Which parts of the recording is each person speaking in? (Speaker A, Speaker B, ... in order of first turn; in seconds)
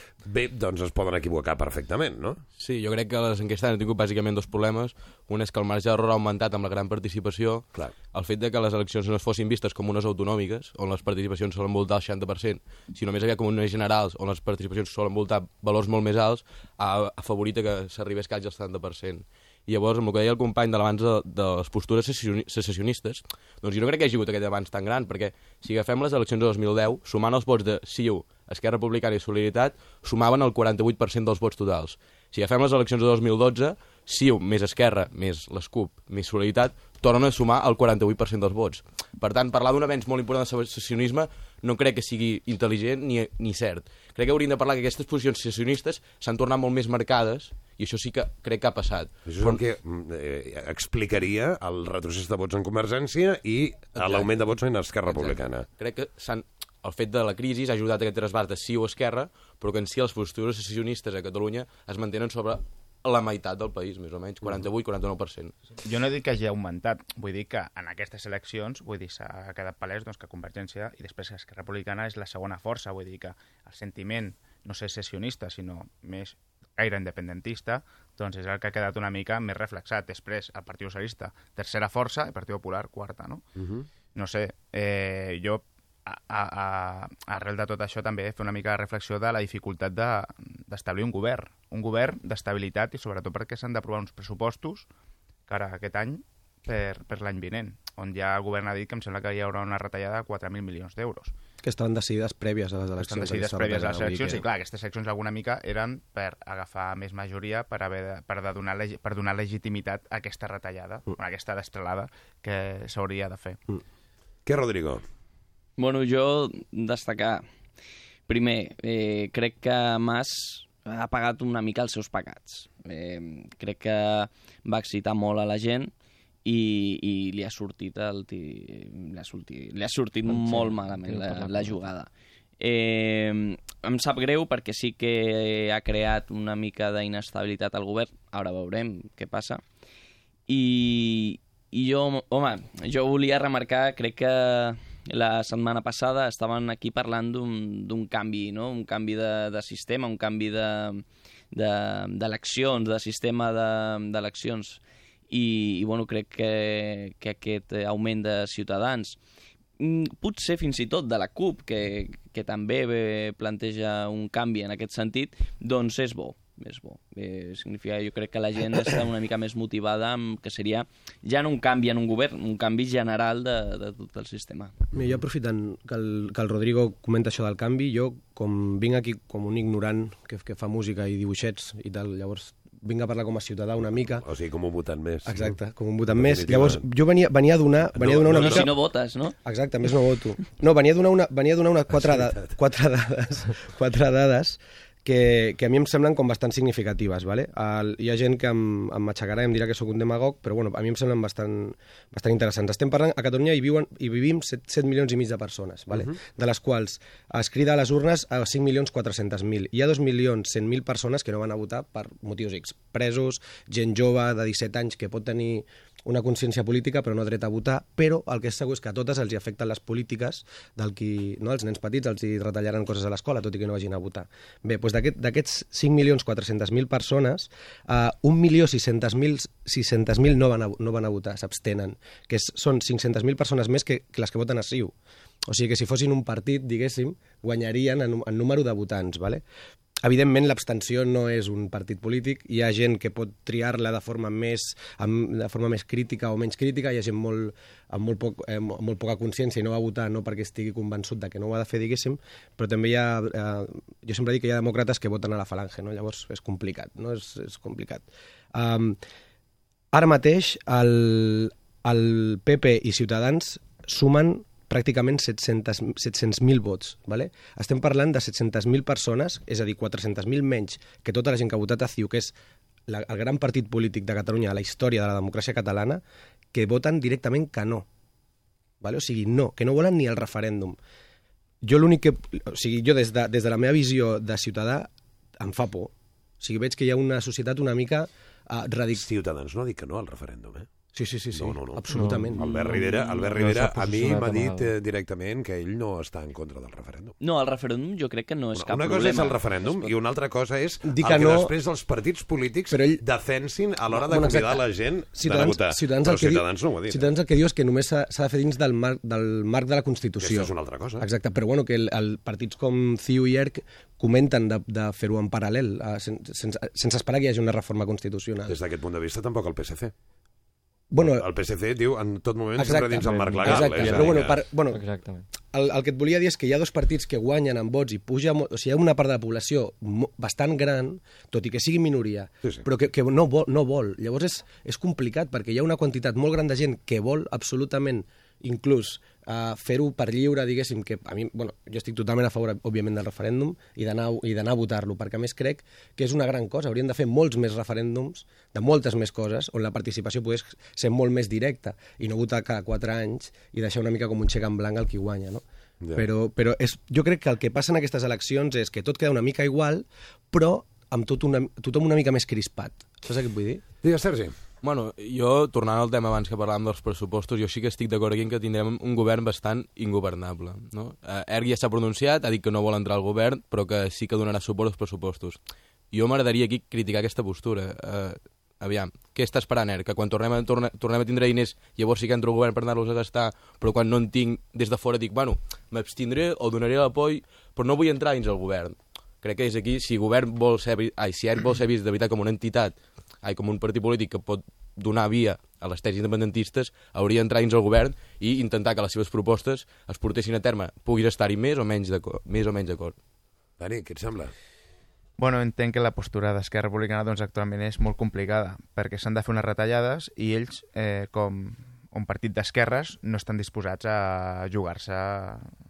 Speaker A: 0.2-2.4, 49.3-55.7, 83.6-83.9, 114.5-115.0, 184.2-185.5, 186.1-186.8, 187.9-188.7, 191.9-192.5, 289.0-290.7, 291.3-297.1, 298.6-307.1, 310.2-311.1, 318.5-319.9, 321.0-324.4, 355.8-356.1, 363.8-364.3, 403.6-404.3
Speaker B: 2.6-49.6, 54.0-54.3, 55.1-65.5, 364.6-375.4, 375.9-403.0
Speaker C: 65.8-83.4, 84.2-94.9, 95.5-101.3, 103.0-113.6, 405.2-415.5
Speaker D: 101.6-104.4, 174.9-184.3, 185.2-188.8, 189.4-234.9, 235.5-239.4, 240.0-259.0, 259.9-272.3, 272.9-276.0, 276.5-277.9, 278.8-280.8, 281.6-289.1, 290.9-292.5, 300.8-301.5, 302.7-303.0, 303.9-318.6, 320.9-321.3, 322.6-324.8, 325.4-363.6
Speaker E: 115.8-117.5, 118.3-125.9, 126.5-139.6, 140.5-159.2, 159.8-174.8, 188.3-189.4, 297.2-299.9
Speaker F: 130.3-131.8, 291.9-294.8, 322.9-325.3